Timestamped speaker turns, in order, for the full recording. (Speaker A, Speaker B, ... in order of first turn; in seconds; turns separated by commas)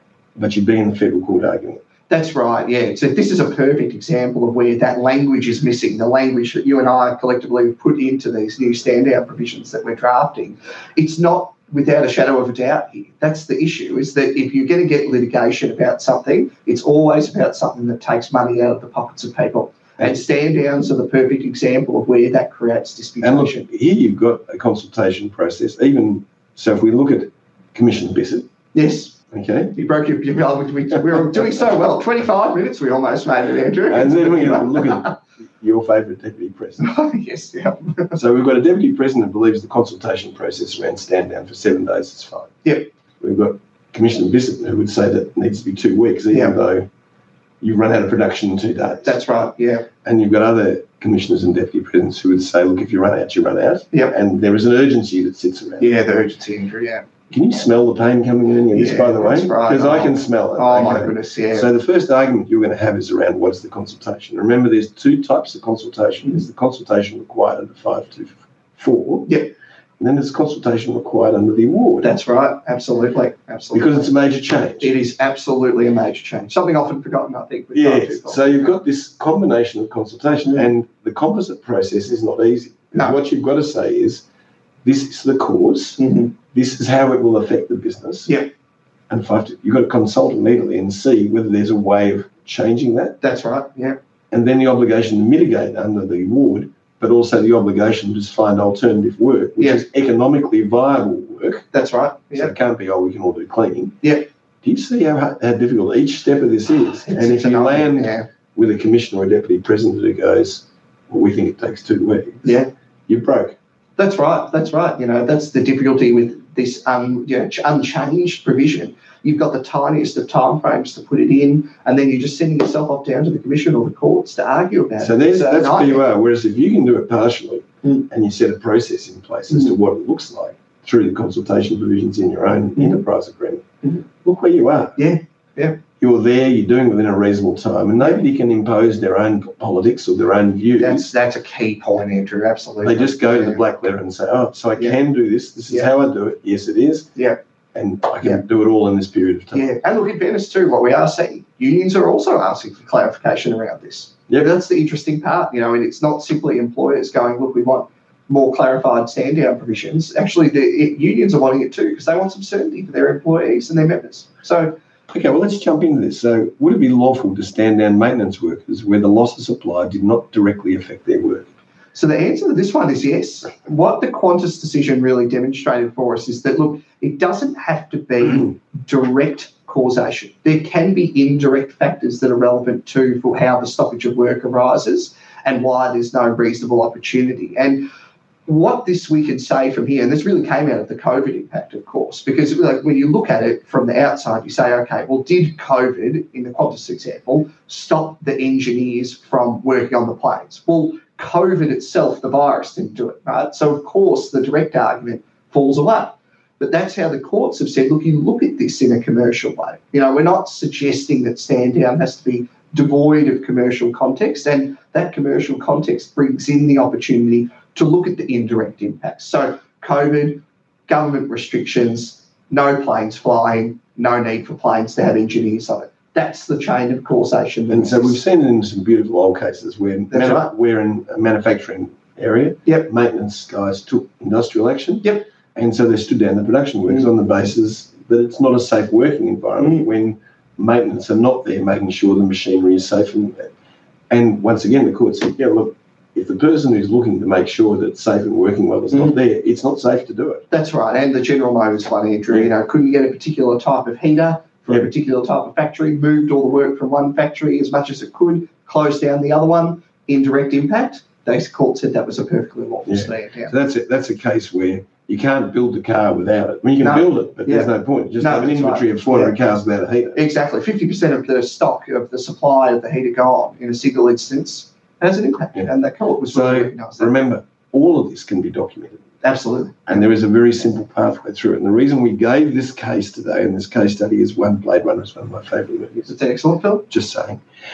Speaker A: 0.3-1.8, Speaker B: 2.1-23.6, Speaker A: 23.2-28.5, Speaker B: 28.7-29.2, Speaker A: 29.3-29.7, Speaker B: 29.7-35.1, Speaker A: 30.9-31.5, Speaker A: 33.9-36.8, Speaker B: 36.8-38.2, Speaker A: 38.1-42.6, Speaker A: 43.2-46.9, Speaker B: 46.3-46.6, Speaker A: 47.6-49.2, Speaker B: 49.0-49.9, Speaker A: 50.0-55.9, Speaker B: 55.8-57.0, Speaker A: 57.3-69.3, Speaker B: 58.7-61.7, Speaker A: 70.0-72.1, Speaker B: 72.0-74.2, Speaker A: 73.7-74.9, Speaker B: 74.8-78.8, Speaker A: 77.7-84.2, Speaker A: 84.8-88.3, Speaker B: 86.0-86.3, Speaker A: 89.1-93.2, Speaker B: 93.2-94.0, Speaker A: 94.3-101.7, Speaker B: 99.6-99.8, Speaker B: 101.7-102.5, Speaker A: 102.3-104.0, Speaker A: 104.6-113.5, Speaker B: 107.0-108.3, Speaker B: 112.4-112.7, Speaker B: 114.0-126.0, Speaker A: 125.0-135.0, Speaker B: 132.8-133.0, Speaker B: 134.9-135.8, Speaker A: 136.0-141.1, Speaker B: 140.8-143.6, Speaker A: 142.8-147.1, Speaker A: 147.7-149.7, Speaker B: 149.5-164.8, Speaker A: 165.1-171.5, Speaker B: 171.9-187.9, Speaker B: 188.4-228.2, Speaker A: 227.7-243.5, Speaker B: 230.1-230.5, Speaker B: 239.6-239.8, Speaker A: 244.1-250.4, Speaker B: 248.9-249.2, Speaker B: 250.5-263.5, Speaker A: 262.9-270.2, Speaker B: 266.8-269.4, Speaker B: 270.1-277.1, Speaker A: 276.3-279.0, Speaker B: 279.2-280.0, Speaker A: 279.9-286.1, Speaker B: 286.1-286.9, Speaker A: 286.9-287.4